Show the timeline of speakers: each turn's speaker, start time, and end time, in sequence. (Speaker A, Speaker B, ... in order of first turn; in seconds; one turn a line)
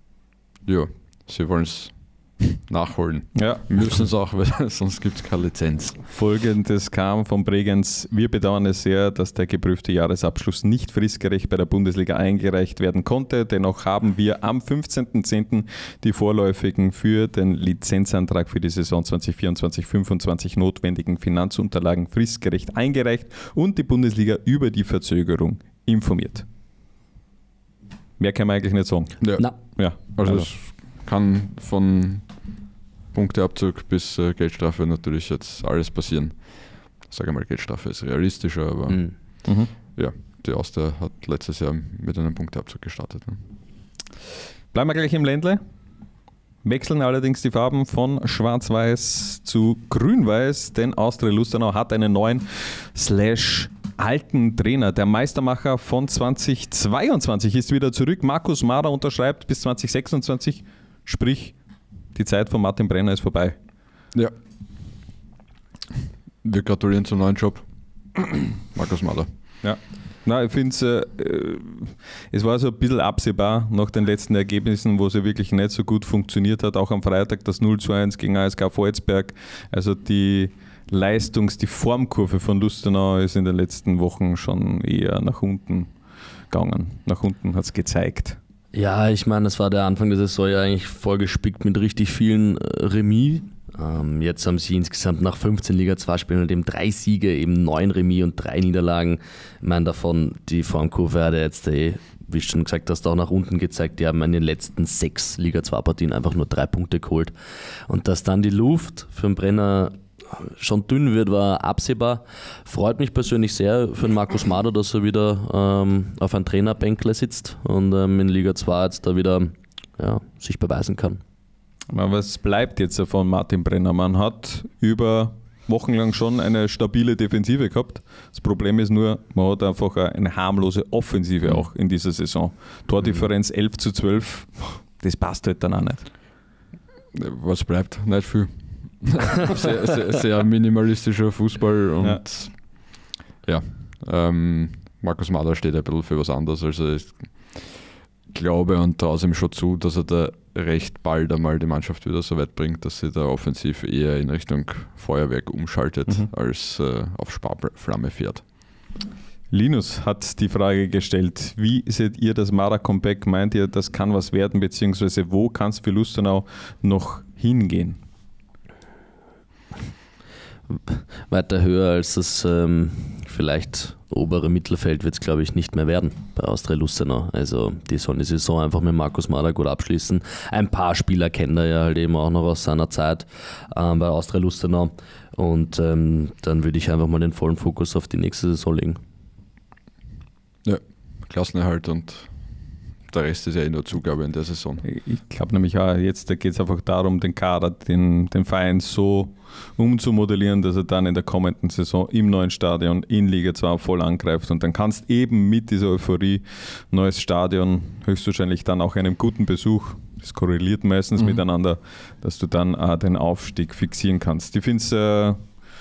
Speaker A: 0.7-6.0
Speaker B: 3.4-4.0
Speaker B: 6.1-26.5
Speaker B: 28.2-30.5
Speaker A: 29.2-43.4
Speaker C: 38.9-39.1
Speaker B: 39.5-39.7
Speaker B: 44.7-45.6
Speaker B: 46.6-61.6
Speaker B: 62.1-63.6
Speaker A: 66.4-69.3
Speaker B: 69.6-85.9
Speaker B: 86.5-88.4
Speaker C: 88.7-107.3
Speaker C: 107.9-121.2
Speaker B: 121.9-136.1
Speaker A: 137.1-158.5
Speaker B: 159.5-168.0
Speaker C: 170.7-189.0
Speaker A: 190.6-194.8
Speaker B: 194.8-215.4